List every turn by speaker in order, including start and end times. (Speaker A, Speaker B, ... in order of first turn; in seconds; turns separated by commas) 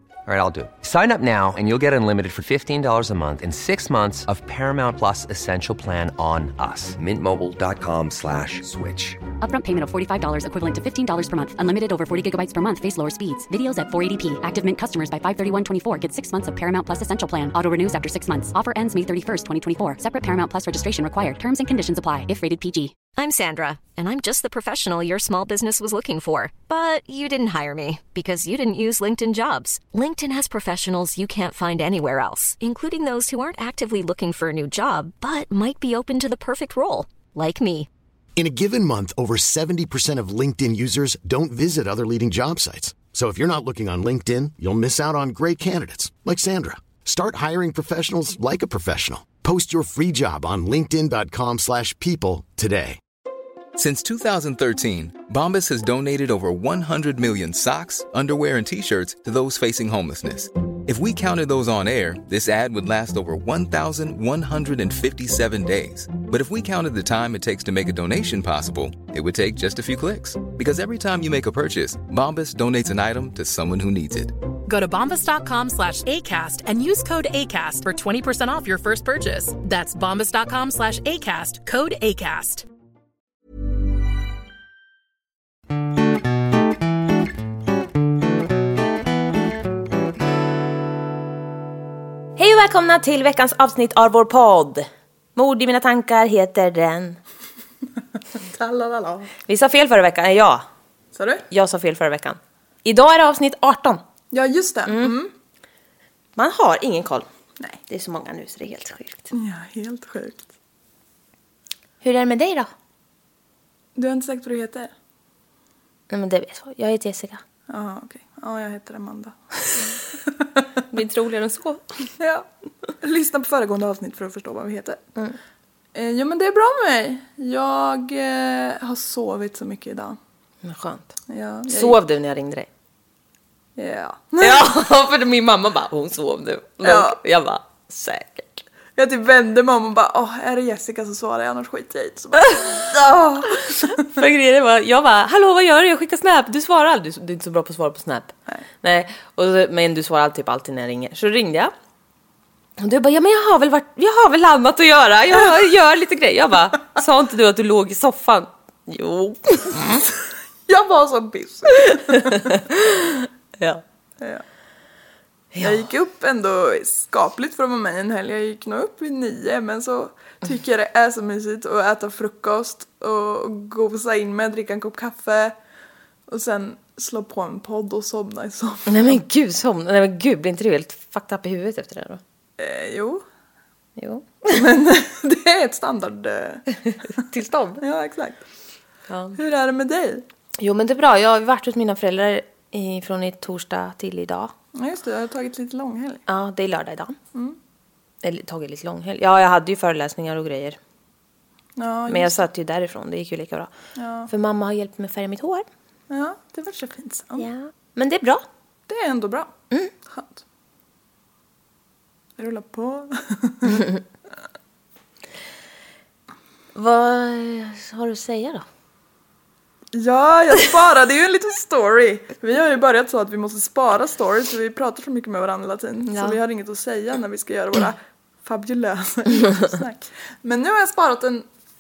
Speaker A: 0.2-9.2, Speaker B: 9.4-23.0, Speaker C: 23.1-37.9, Speaker D: 38.4-53.0, Speaker E: 53.8-74.3, Speaker F: 74.7-82.7, Speaker G: 92.4-97.2, Speaker H: 98.3-99.3, Speaker G: 99.4-100.6, Speaker H: 101.2-101.4, Speaker G: 101.5-104.0, Speaker H: 104.3-105.3, Speaker G: 104.9-105.1, Speaker G: 106.3-107.3, Speaker G: 107.9-109.3, Speaker H: 109.3-110.5, Speaker G: 112.0-112.7, Speaker H: 113.9-114.9, Speaker G: 116.1-117.4, Speaker H: 117.7-119.9, Speaker G: 120.9-122.0, Speaker H: 122.2-122.5, Speaker H: 123.0-125.0, Speaker H: 125.9-130.2, Speaker G: 130.6-131.0, Speaker H: 131.3-132.0, Speaker G: 131.7-132.7, Speaker H: 133.8-134.7, Speaker G: 134.4-138.6, Speaker H: 136.8-137.2, Speaker H: 139.0-144.0, Speaker G: 142.4-151.7, Speaker G: 152.8-160.1, Speaker H: 160.7-162.6, Speaker G: 161.9-163.8, Speaker G: 165.5-165.8, Speaker H: 165.6-175.5, Speaker H: 176.3-179.2, Speaker G: 178.9-182.2, Speaker H: 182.6-183.2, Speaker G: 184.0-184.8, Speaker H: 184.5-186.6, Speaker G: 187.2-187.8, Speaker H: 187.8-188.4, Speaker G: 189.1-189.4, Speaker H: 189.3-190.2, Speaker G: 190.6-194.5, Speaker H: 194.7-196.2, Speaker G: 196.3-197.2, Speaker G: 198.2-200.8, Speaker H: 201.8-202.4, Speaker G: 202.1-203.7, Speaker H: 204.0-204.3, Speaker G: 204.3-205.7, Speaker H: 206.1-207.5, Speaker G: 207.4-208.4, Speaker H: 208.9-209.5, Speaker H: 210.1-210.4, Speaker H: 212.4-213.9, Speaker G: 216.7-218.6, Speaker H: 219.9-231.4, Speaker G: 226.1-226.4